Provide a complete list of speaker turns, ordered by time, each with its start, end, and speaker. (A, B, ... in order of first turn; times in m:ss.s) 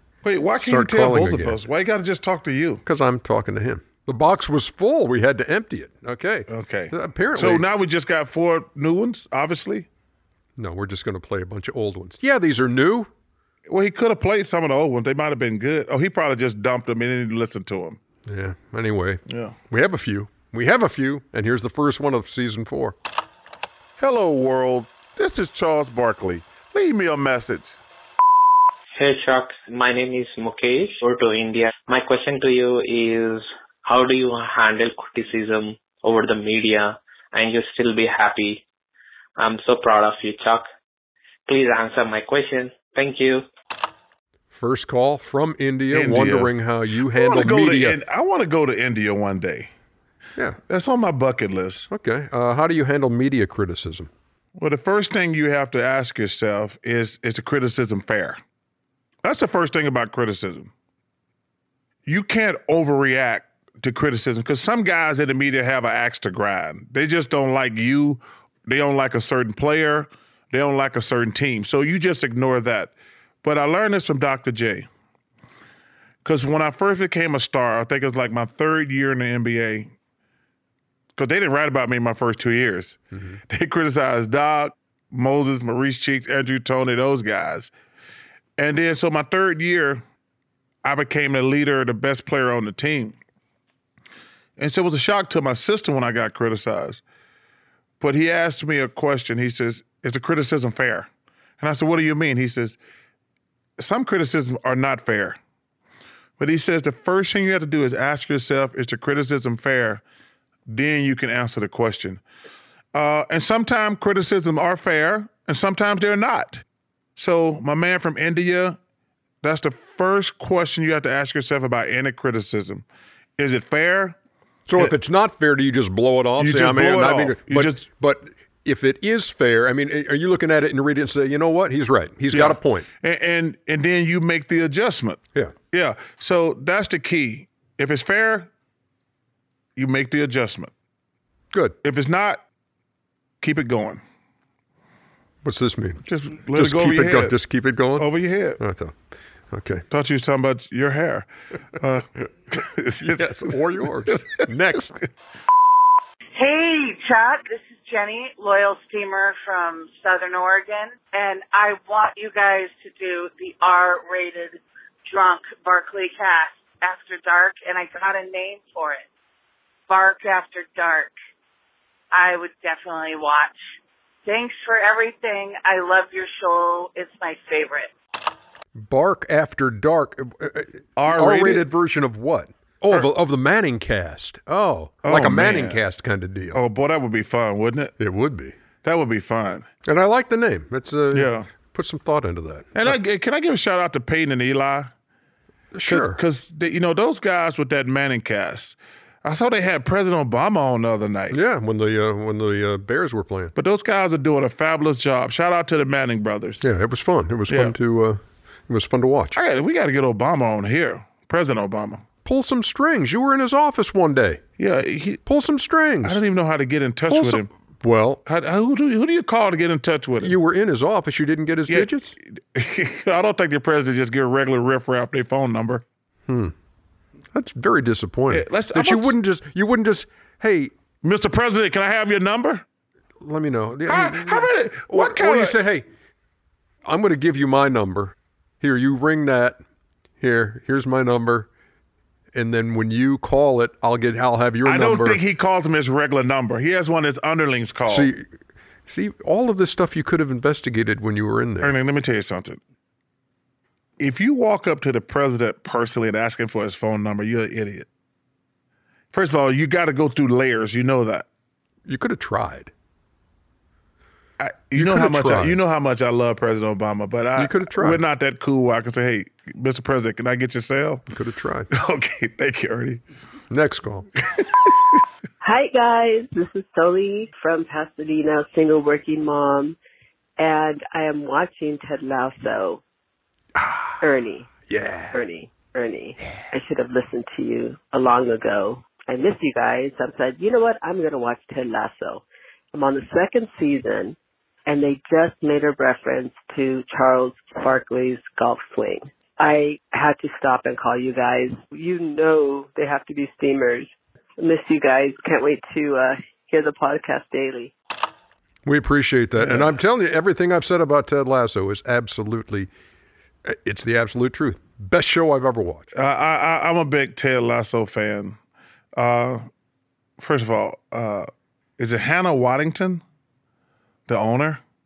0:00.2-0:02.8 A
0:00.6-0:01.6 B
0:02.8-0:07.6 B
0:06.5-0:09.9 A
0:10.6-0:13.1 B
0:13.7-0:18.0 A
0:18.3-0:23.0 B
0:19.3-0:19.5 A
0:24.0-0:27.8 A
0:29.0-0:38.6 C
0:39.4-0:40.6 C
0:41.4-0:43.4 C
0:44.5-0:48.0 B
0:45.9-0:46.5 A
0:47.1-0:49.7 A
0:50.7-0:51.9 A
0:51.9-0:54.1 B
0:54.6-0:58.4 A
0:59.2-1:00.7 A
1:02.0-1:14.9 A
1:16.2-1:19.9 A
1:21.2-1:27.7 A
1:23.1-1:23.4 B
1:28.6-1:30.0 A
1:30.8-1:33.2 A
1:34.6-1:37.0 A
1:38.0-1:41.1 A
1:41.6-1:42.8 A
1:43.8-1:45.4 A
1:46.4-1:50.0 A
1:50.7-1:52.2 A
1:52.9-1:56.6 A
1:57.2-1:58.8 A
1:59.4-2:02.8 A
2:03.4-2:04.2 A
2:04.7-2:12.9 B
2:06.4-2:07.8 A
2:12.3-2:15.2 A
2:15.7-2:18.5 A
2:19.8-2:20.7 A
2:21.8-2:22.4 A
2:23.4-2:24.0 A
2:25.4-2:28.9 B
2:26.0-2:27.4 A
2:28.0-2:28.6 A
2:29.5-2:29.8 B
2:29.9-2:33.5 A
2:33.0-2:35.0 B
2:34.1-2:34.4 A
2:36.4-2:49.0 D
2:49.9-2:51.1 D
2:52.1-2:53.6 D
2:54.2-2:57.9 D
2:58.8-3:06.6 B
3:01.0-3:01.6 A
3:05.0-3:05.8 A
3:06.5-3:07.9 A
3:08.0-3:08.5 B
3:08.8-3:09.7 A
3:09.8-3:13.0 B
3:11.1-3:11.5 A
3:12.8-3:14.9 A
3:15.7-3:16.2 B
3:15.9-3:21.4 A
3:21.3-3:23.5 B
3:23.6-3:26.7 A
3:26.6-3:29.4 B
3:27.5-3:27.7 A
3:29.3-3:32.0 A
3:32.2-3:34.4 B
3:34.6-3:35.2 A
3:35.2-3:36.2 B
3:36.0-3:37.5 A
3:37.1-3:38.2 B
3:38.2-3:40.3 A
3:40.2-3:42.1 B
3:41.7-3:45.8 A
3:46.3-3:46.5 B
3:47.3-3:50.7 B
3:48.3-3:49.1 A
3:51.0-3:52.6 A
3:53.2-3:55.8 B
3:53.9-3:55.6 A
3:56.8-3:59.6 B
4:00.2-4:01.5 B
4:02.3-4:05.2 B
4:04.6-4:08.1 A
4:07.8-4:08.2 B
4:08.9-4:11.7 B
4:11.6-4:12.6 A
4:14.0-4:17.9 A
4:19.1-4:21.3 A
4:21.8-4:22.7 B
4:24.4-4:31.0 A
4:24.7-4:25.6 B
4:27.4-4:28.0 B
4:31.1-4:31.7 B
4:31.7-4:33.0 A
4:33.5-4:34.1 B
4:34.3-4:35.0 A
4:35.4-4:39.8 E
4:40.4-4:42.8 E
4:43.6-4:44.0 B
4:44.0-4:44.5 E
4:44.7-4:45.2 B
4:45.1-5:07.7 E
5:08.6-5:12.7 B
5:09.4-5:09.7 A
5:13.4-5:15.9 B
5:16.0-5:18.4 A
5:19.0-5:19.5 A
5:20.2-5:23.0 A
5:24.1-5:24.6 A